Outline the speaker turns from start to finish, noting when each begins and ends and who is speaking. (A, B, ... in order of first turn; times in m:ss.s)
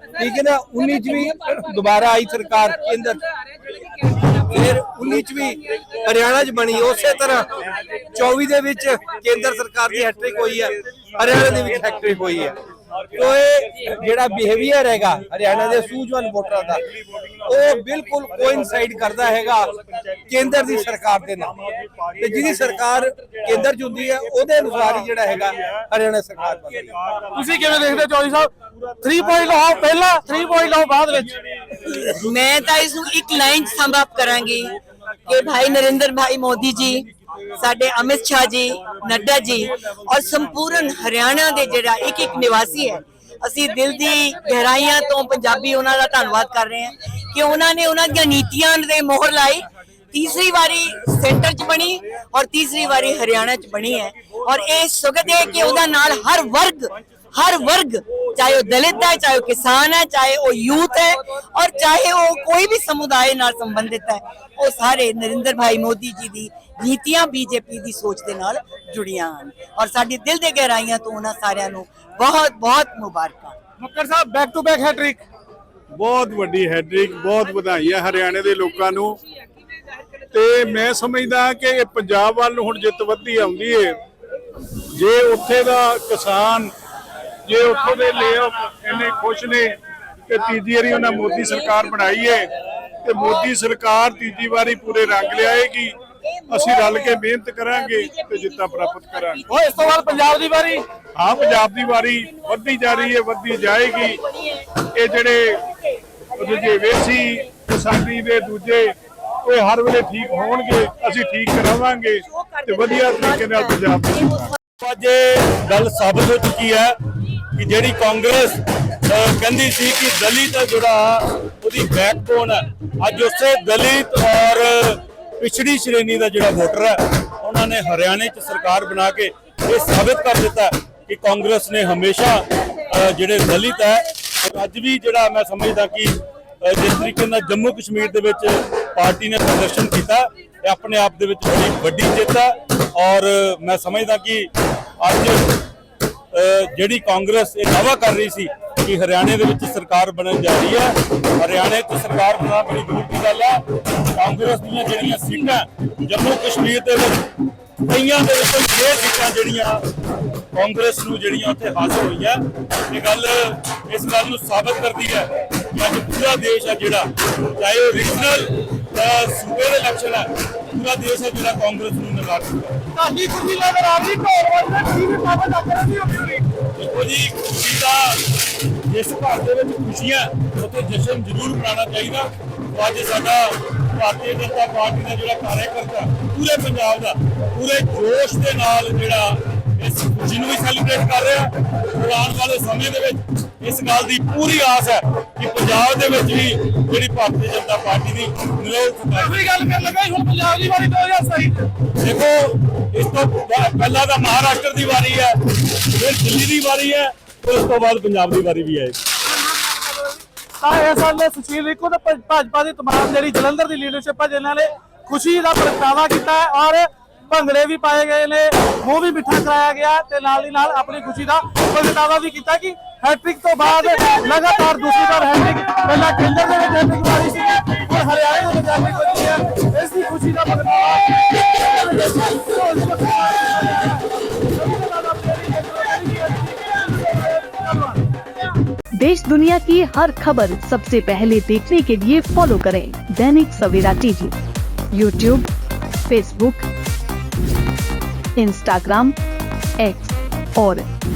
0:00.2-0:03.3 A
0:04.1-0:12.6 A
0:13.1-0:16.8 A
0:17.4-0:19.7 A
0:20.3-0:21.6 A
0:22.1-0:26.9 A
0:27.3-0:31.3 B
0:31.8-1:13.6 C
1:13.8-1:15.2 B
1:15.9-1:19.2 D
1:20.3-1:24.0 D
1:24.9-1:26.7 D
1:27.5-1:29.8 D
1:30.3-1:36.0 D
1:36.5-1:39.4 D
1:36.7-1:37.2 C
1:37.8-1:39.6 C
1:39.5-1:40.8 B
1:41.2-1:44.2 D
1:44.8-1:45.6 D
1:46.3-1:54.4 D
1:53.1-1:53.5 C
1:54.8-1:56.9 E
1:57.5-2:24.5 E
2:25.0-2:25.4 E
2:26.3-2:37.3 E
2:37.8-2:39.8 E
2:40.5-2:52.8 E
2:52.9-2:56.4 B
2:56.7-2:58.3 E
2:58.8-3:19.4 E
3:19.1-3:21.7 B
3:22.0-3:29.0 E
3:29.5-3:30.0 B
3:30.6-3:58.1 B
3:59.0-4:04.4 F
4:04.9-4:05.5 F
4:06.1-4:06.7 F
4:08.4-4:09.2 F
4:09.8-4:10.8 F